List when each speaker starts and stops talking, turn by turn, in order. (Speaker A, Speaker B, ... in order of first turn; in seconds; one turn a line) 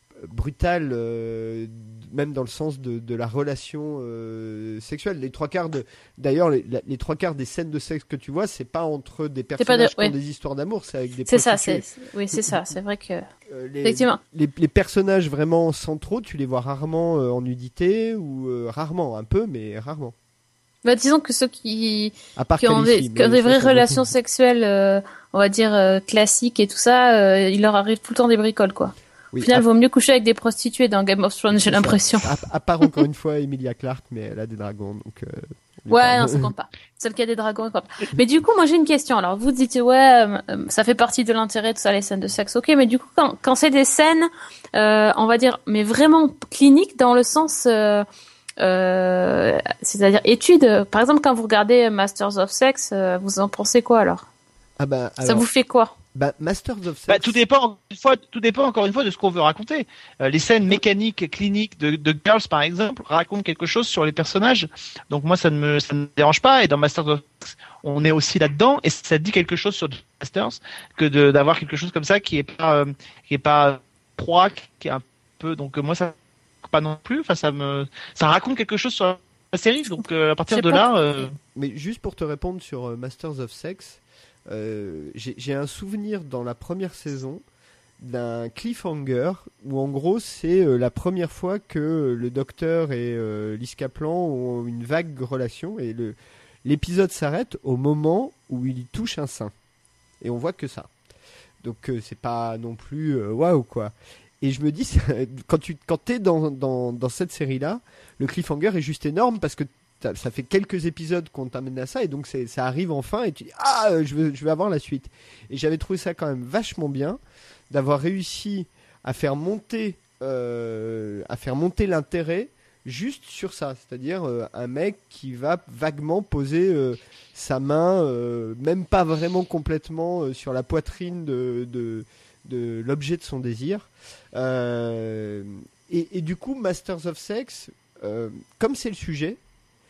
Speaker A: 0.2-12.6
Speaker B: 9.6-10.1
Speaker B: 11.3-13.3
Speaker A: 13.5-20.1
Speaker B: 13.8-14.2
Speaker B: 20.8-32.2
Speaker A: 22.4-24.0
Speaker A: 29.3-29.7
Speaker A: 31.6-36.5
Speaker B: 35.9-48.1
Speaker B: 48.6-54.3
Speaker A: 54.8-55.5
Speaker B: 55.2-55.9
Speaker A: 56.1-57.4
Speaker C: 57.1-76.1
Speaker C: 76.7-81.3
Speaker B: 80.5-80.8
Speaker A: 81.5-87.4
Speaker A: 88.0-99.5
Speaker A: 100.2-100.9
Speaker A: 101.6-139.4